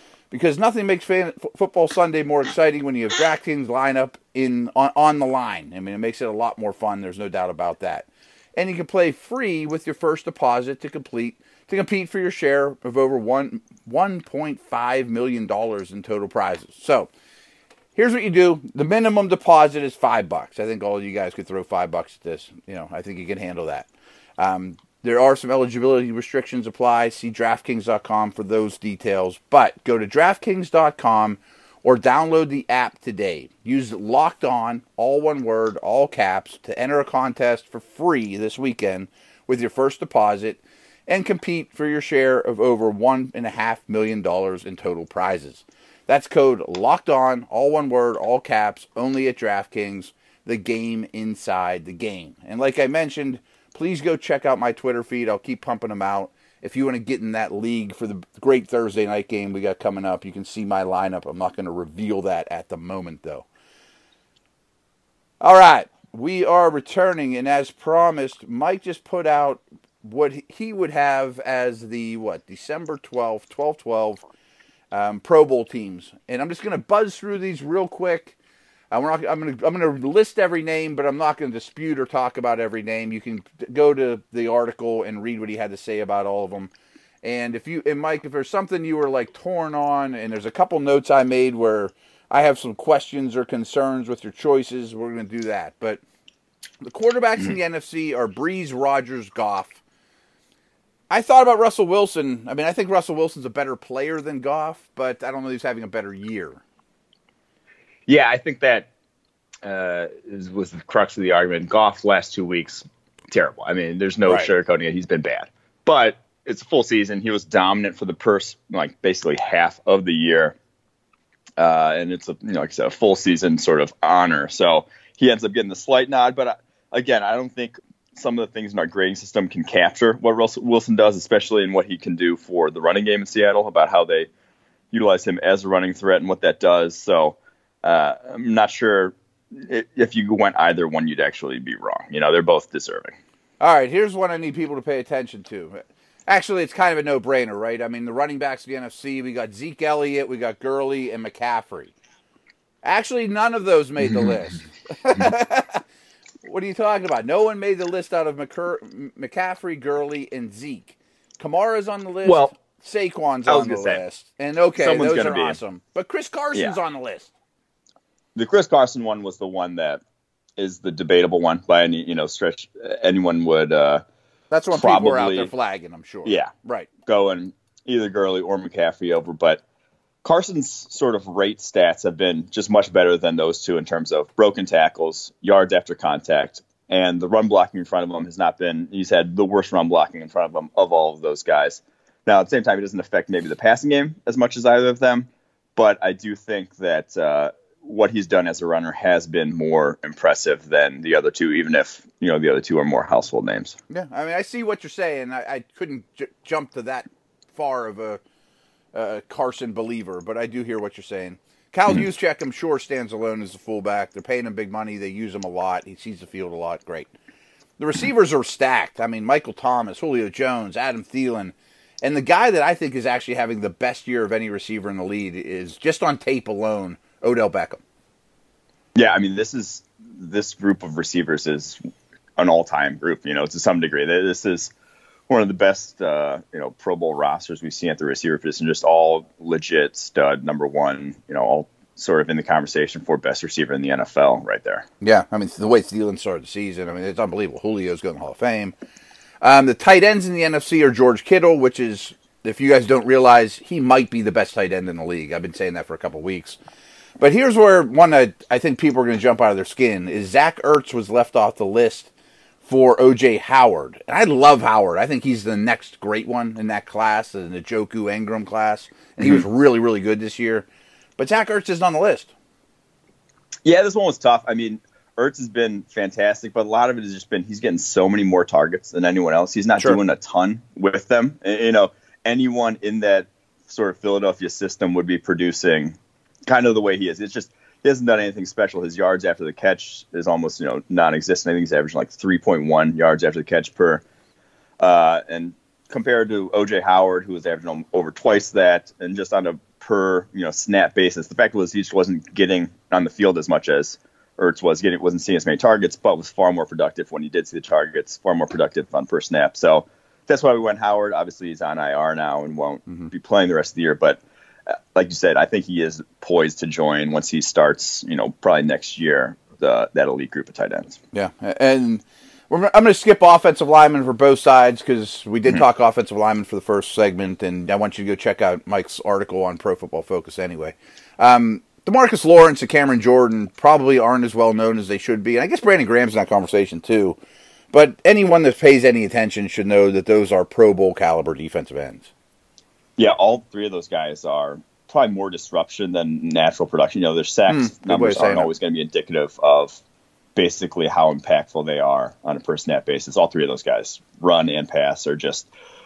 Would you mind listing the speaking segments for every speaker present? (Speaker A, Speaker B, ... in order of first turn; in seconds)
Speaker A: 0.3-17.1, 17.9-63.5, 65.4-74.2, 74.9-78.3, 78.9-86.7, 87.2-96.0, 96.8-99.8, 101.1-106.6, 143.6-151.9, 152.8-155.8, 156.4-167.3, 174.5-176.9, 203.9-208.2, 208.9-217.1, 217.8-227.8, 245.0-248.7, 249.4-256.6, 257.2-262.1, 262.6-270.6, 271.2-272.3, 321.1-337.2, 337.7-342.1, 347.5-348.5
Speaker B: 108.1-108.9, 109.6-120.5, 121.6-134.3, 134.9-143.1, 162.2-162.5, 163.5-164.0, 164.8-165.6, 168.3-170.0, 170.6-174.0, 174.7-175.5, 176.2-176.5, 177.1-179.6, 180.2-203.8, 228.9-231.8, 232.4-234.7, 235.3-244.8, 273.6-294.0, 294.8-321.0, 343.0-349.8, 350.3-355.5